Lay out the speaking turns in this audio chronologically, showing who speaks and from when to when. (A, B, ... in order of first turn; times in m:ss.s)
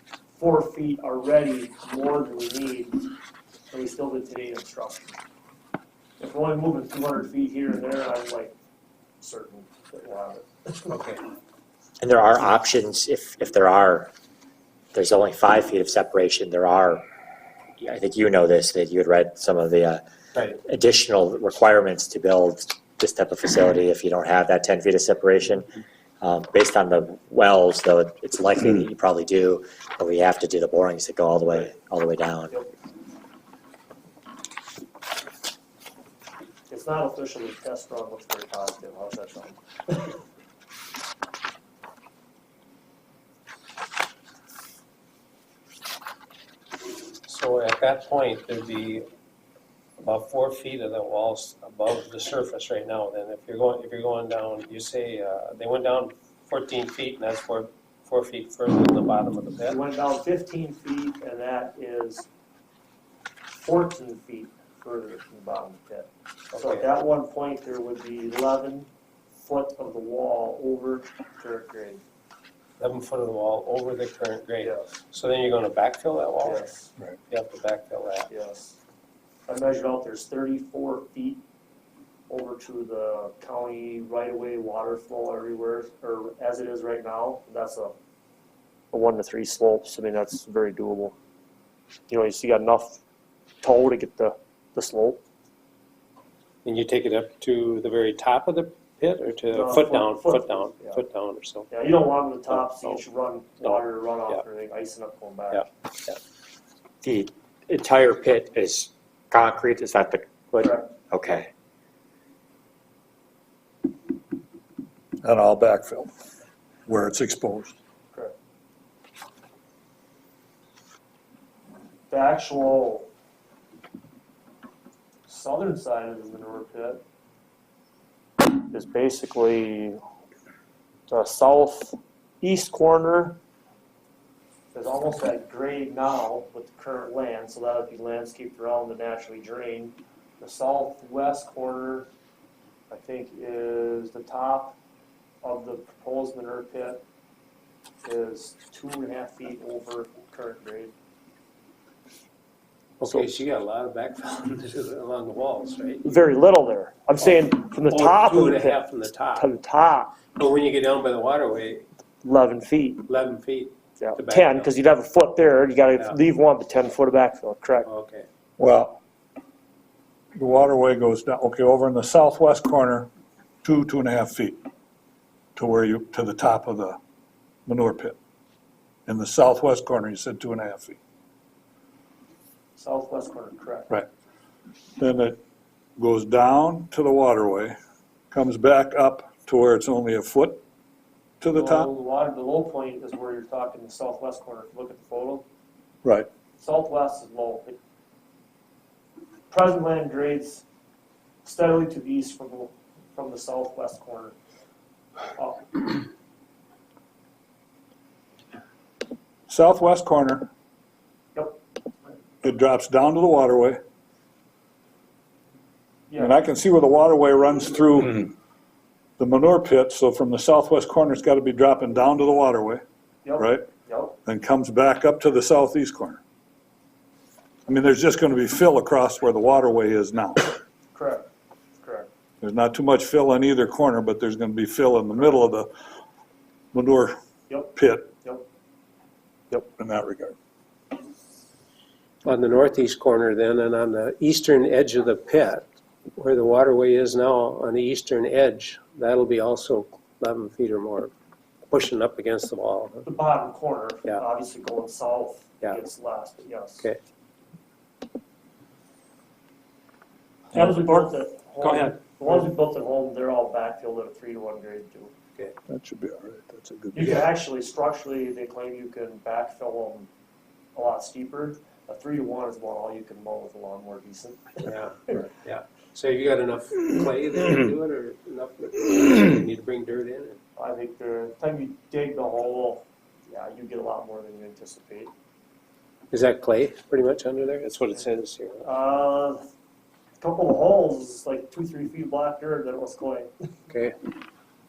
0:00.4-0:03.0 A
0:03.7-0:05.2 A
0:06.2-0:08.5 A
0:09.2-0:10.9 A
0:10.9-0:11.2 B
0:12.0-0:14.1 C
0:14.9-0:17.0 C
0:17.8-0:20.0 C
0:20.3-0:20.6 B
0:20.6-0:25.7 C
0:26.2-0:32.6 C
0:36.7-0:40.2 A
0:47.2-0:49.0 B
0:50.0-0:59.8 B
0:59.7-1:02.3 A
1:03.6-1:12.0 A
1:06.5-1:06.9 B
1:12.8-1:16.6 B
1:14.6-1:14.9 A
1:16.4-1:16.9 A
1:17.3-1:18.3 B
1:18.3-1:18.8 A
1:19.5-1:21.4 A
1:22.3-1:28.0 A
1:28.9-1:31.2 A
1:32.1-1:33.0 A
1:33.6-1:35.2 A
1:36.6-1:41.7 B
1:39.5-1:41.0 A
1:41.7-1:45.7 A
1:42.5-1:43.0 B
1:43.6-1:44.4 B
1:45.5-1:46.2 B
1:47.0-1:51.5 C
1:50.6-1:50.9 A
1:55.2-1:56.1 D
1:56.9-1:57.8 D
2:02.1-2:03.1 A
2:05.2-2:07.0 A
2:08.5-2:10.0 A
2:11.1-2:13.4 A
2:14.7-2:22.1 A
2:22.9-2:24.8 A
2:25.4-2:27.0 A
2:28.0-2:30.9 A
2:33.0-2:36.1 B
2:36.0-2:38.8 A
2:37.7-2:39.5 B
2:39.3-2:40.2 A
2:40.3-2:41.8 B
2:42.2-2:43.0 A
2:43.0-2:44.7 B
2:44.0-2:47.9 A
2:47.8-2:48.3 B
2:48.6-2:49.0 D
2:50.3-2:53.1 D
2:53.6-2:54.6 D
2:55.6-2:57.0 D
2:57.6-2:58.2 D
2:59.1-3:01.0 D
3:02.8-3:03.9 A
3:05.0-3:05.4 D
3:06.0-3:07.7 D
3:08.3-3:10.6 D
3:11.4-3:11.9 D
3:11.5-3:15.4 A
3:16.6-3:17.8 A
3:19.5-3:20.6 A
3:21.4-3:24.4 A
3:25.4-3:26.0 A
3:29.5-3:30.5 D
3:31.3-3:31.6 A
3:32.4-3:33.8 D
3:36.1-3:36.4 A
3:36.2-3:38.3 D
3:39.2-3:42.8 D
3:43.2-3:44.2 A
3:43.4-3:43.7 D
3:44.2-3:46.2 D
3:47.7-3:50.5 D
3:50.9-3:51.3 A
3:51.8-3:52.1 A
3:52.4-3:55.7 D
3:56.7-3:57.2 D
3:57.5-3:58.4 A
3:57.7-3:58.1 D
3:59.6-4:00.3 D
4:02.2-4:11.1 B
4:11.7-4:13.0 B
4:13.0-4:16.9 A
4:20.5-4:25.1 A
4:21.6-4:22.0 B
4:25.7-4:27.3 D
4:26.9-4:30.1 A
4:30.7-4:34.7 A
4:34.6-4:40.4 B
4:40.6-4:45.1 A
4:46.1-4:48.6 B
4:48.6-4:49.4 A
4:50.2-4:53.3 A
4:53.7-4:53.9 B